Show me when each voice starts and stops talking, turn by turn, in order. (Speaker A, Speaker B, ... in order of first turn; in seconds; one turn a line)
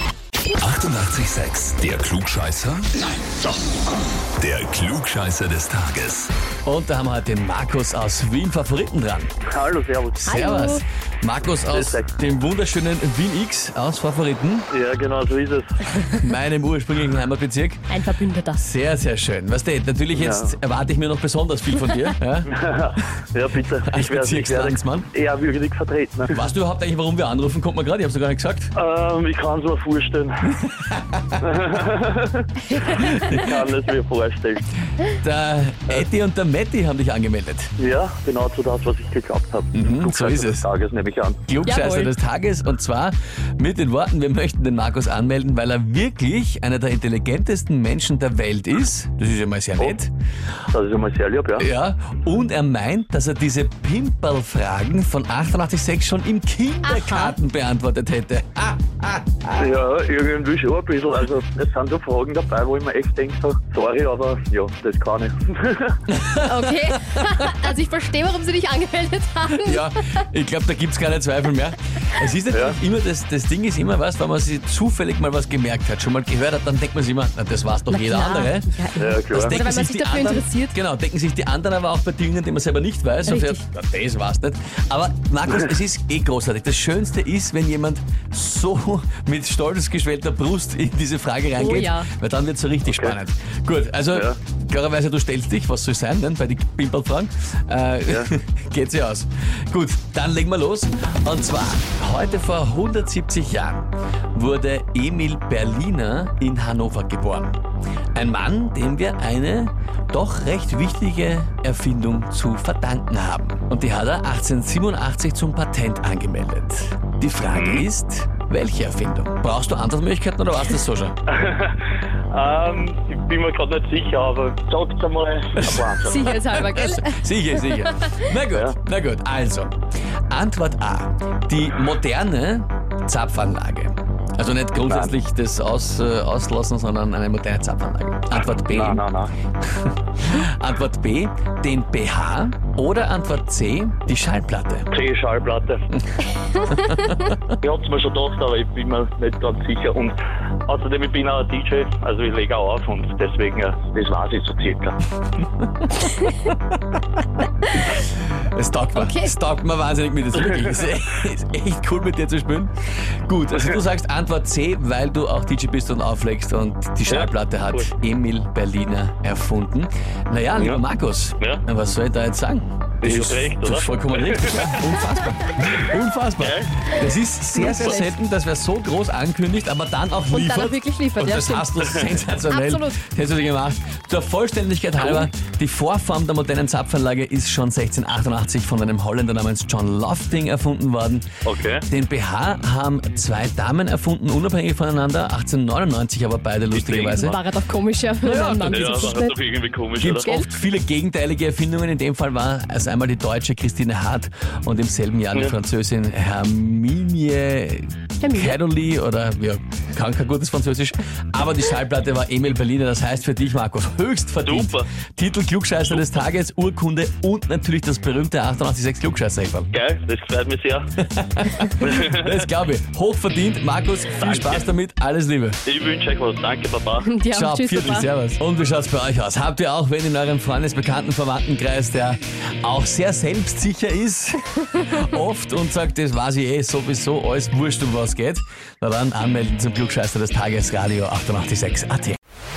Speaker A: 0.5-2.9
Speaker A: 4.4-6.3
Speaker B: 6.6-9.3
Speaker C: 9.5-10.4
Speaker D: 10.2-10.8
Speaker B: 10.2-14.7
Speaker C: 11.7-12.1
Speaker C: 14.7-15.7
Speaker B: 16.1-17.9
Speaker D: 17.9-18.6
Speaker B: 18.5-22.5
Speaker C: 20.1-20.6
Speaker C: 22.5-26.4
Speaker B: 23.8-25.1
Speaker B: 26.3-28.7
Speaker C: 28.7-30.4
Speaker B: 30.5-31.4
Speaker C: 31.4-34.6
Speaker B: 32.9-33.6
Speaker B: 35.1-37.7
Speaker C: 37.8-41.4
Speaker B: 39.7-40.6
Speaker B: 41.5-50.1
Speaker D: 41.6-42.1
Speaker C: 50.7-51.6
Speaker B: 51.6-59.7
Speaker D: 56.9-57.3
Speaker C: 59.5-66.0
Speaker B: 66.1-67.5
Speaker D: 66.4-69.9
Speaker B: 69.5-107.6
Speaker D: 77.9-80.7
Speaker C: 79.0-79.6
Speaker D: 83.3-83.6
Speaker D: 91.6-92.1
Speaker C: 92.9-93.1
Speaker B: 108.1-121.2
Speaker C: 117.5-117.8
Speaker C: 121.3-121.8
Speaker C: 122.3-126.2
Speaker B: 125.5-129.7
Speaker D: 126.0-128.1
Speaker B: 130.3-139.0
Speaker C: 134.8-135.1
Speaker C: 138.6-139.3
Speaker B: 139.6-144.9
Speaker C: 144.9-145.8
Speaker B: 146.7-147.4
Speaker C: 147.6-154.9
Speaker B: 155.8-156.5
Speaker B: 157.8-191.3
Speaker D: 158.9-159.3
Speaker C: 167.1-167.9
Speaker C: 170.6-170.8
Speaker C: 173.0-174.4
Speaker C: 176.4-176.7
Speaker D: 177.5-178.1
Speaker D: 180.3-183.0
Speaker C: 191.4-191.8
Speaker B: 191.9-197.4
Speaker C: 196.7-197.3
Speaker D: 196.9-199.3
Speaker B: 198.2-199.2
Speaker C: 198.7-200.3
Speaker B: 200.0-219.7
Speaker D: 200.2-200.5
Speaker D: 208.2-208.6
Speaker C: 214.4-214.8
Speaker C: 219.7-220.9
Speaker B: 221.0-225.6
Speaker C: 221.8-222.3
Speaker C: 224.1-224.7
Speaker C: 225.7-227.1
Speaker D: 227.0-228.1
Speaker B: 227.3-242.2